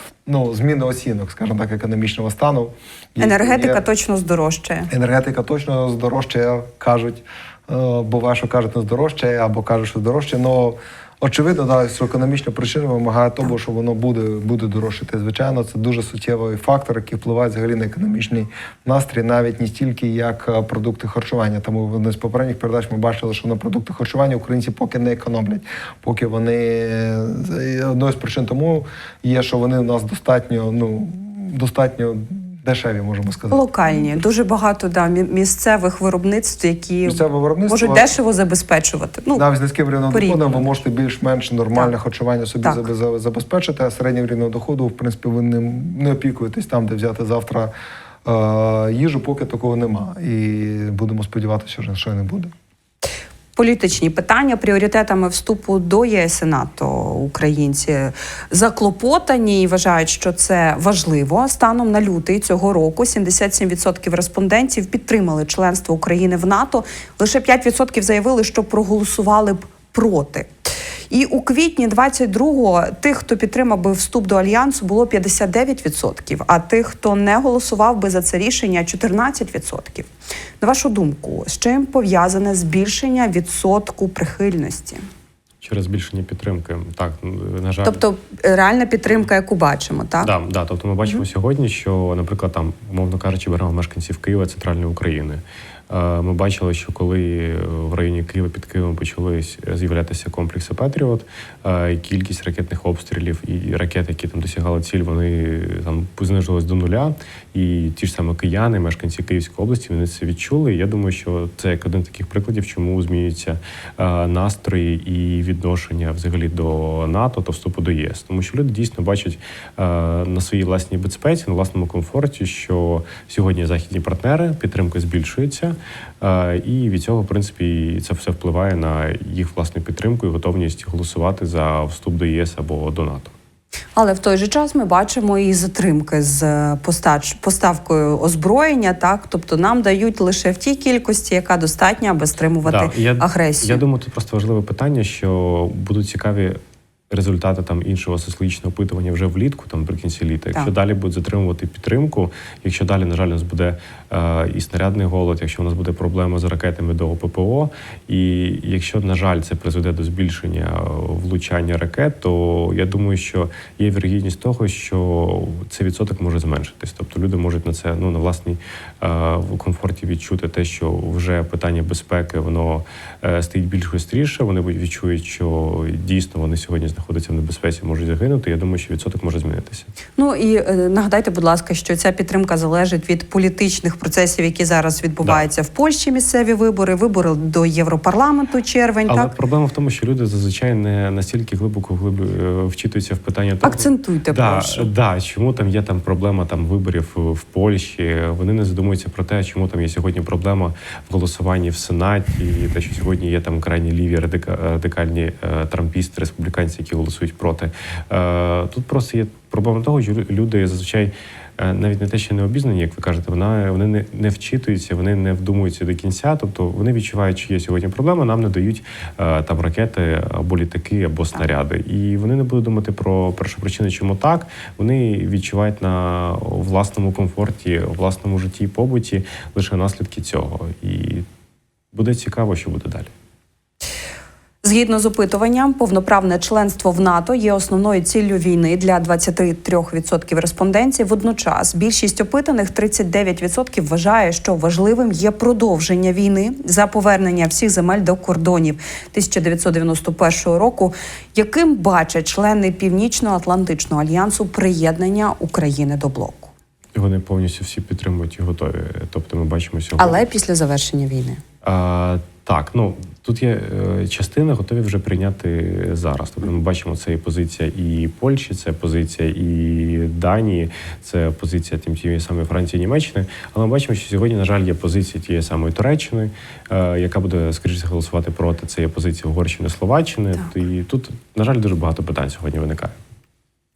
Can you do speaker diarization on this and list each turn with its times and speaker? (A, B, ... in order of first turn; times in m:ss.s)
0:00.2-0:03.8 A
0:03.2-0:04.9 B
0:04.9-0:33.6 A
0:33.5-0:39.4 B
0:37.0-0:38.1 A
0:39.3-0:47.7 A
0:40.1-0:40.7 B
0:48.2-0:52.5 A
0:53.6-1:10.5 B
1:11.1-1:20.1 B
1:20.6-1:25.0 B
1:25.6-1:28.0 C
1:27.8-1:30.3 B
1:30.2-2:13.3 C
2:14.0-2:23.8 B
2:22.6-2:26.6 C
2:27.1-2:59.9 C
3:00.2-3:09.3 B
3:09.1-3:51.2 C
3:13.6-3:14.9 B
3:51.9-3:53.1 C
3:54.6-4:16.5 B
4:16.9-4:20.2 C
4:20.0-4:21.4 B
4:21.6-4:43.0 C